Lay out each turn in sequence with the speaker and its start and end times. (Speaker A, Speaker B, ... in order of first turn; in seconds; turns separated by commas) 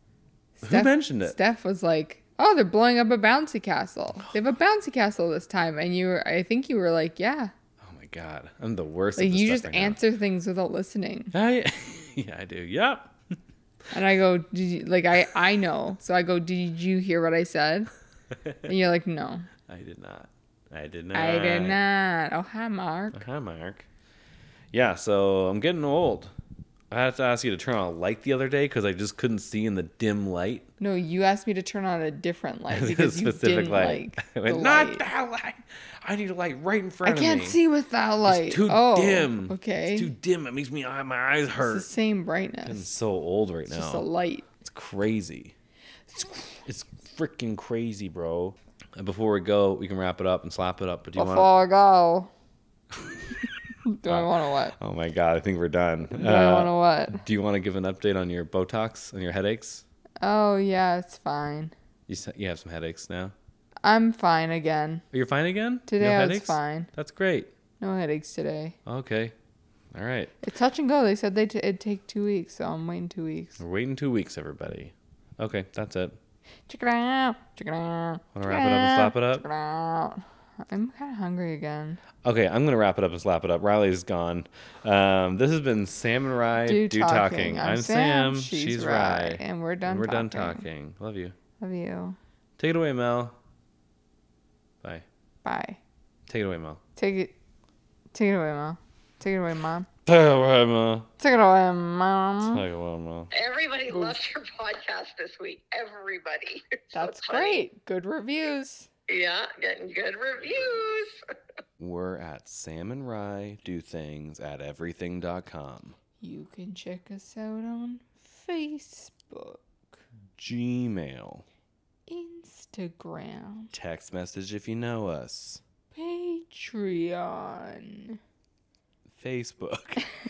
Speaker A: 0.6-7.5, Speaker B: 0.6-1.4, Speaker B: 7.8-10.0, Speaker A: 9.2-11.3, Speaker B: 11.3-13.1, Speaker A: 13.9-17.9, Speaker A: 18.6-19.5, Speaker B: 19.7-21.8, Speaker A: 21.1-23.2, Speaker B: 23.1-23.9, Speaker B: 24.7-26.3, Speaker B: 26.9-30.7, Speaker A: 30.8-35.0, Speaker B: 32.7-37.6, Speaker A: 37.0-40.1, Speaker B: 38.2-41.9, Speaker A: 41.6-42.9, Speaker B: 42.6-44.0, Speaker A: 43.7-44.5, Speaker B: 44.6-45.5, Speaker A: 46.1-46.6, Speaker B: 46.6-51.5, Speaker A: 51.1-52.3, Speaker A: 53.9-54.8, Speaker B: 54.1-59.8, Speaker A: 56.1-57.2, Speaker A: 60.2-61.7, Speaker B: 62.1-63.3, Speaker A: 63.8-65.0, Speaker B: 65.1-67.5, Speaker A: 65.9-66.9, Speaker A: 67.8-68.8, Speaker B: 68.8-69.3, Speaker B: 69.9-70.3, Speaker A: 70.4-73.6, Speaker B: 73.6-76.2, Speaker A: 76.7-82.0, Speaker B: 78.3-79.4, Speaker B: 82.2-91.3, Speaker A: 86.6-90.6, Speaker A: 91.6-92.2, Speaker B: 92.6-93.3, Speaker A: 95.4-95.8, Speaker B: 96.3-96.8, Speaker A: 97.0-97.3, Speaker A: 98.1-99.9, Speaker B: 100.0-101.1, Speaker A: 101.2-102.6, Speaker B: 102.4-103.3, Speaker C: 103.3-107.6, Speaker A: 106.9-108.9, Speaker C: 109.1-111.2, Speaker B: 111.8-116.0, Speaker A: 116.2-120.0, Speaker B: 120.4-121.5, Speaker A: 122.1-123.7, Speaker B: 123.7-125.6, Speaker A: 125.9-128.2, Speaker B: 129.2-130.1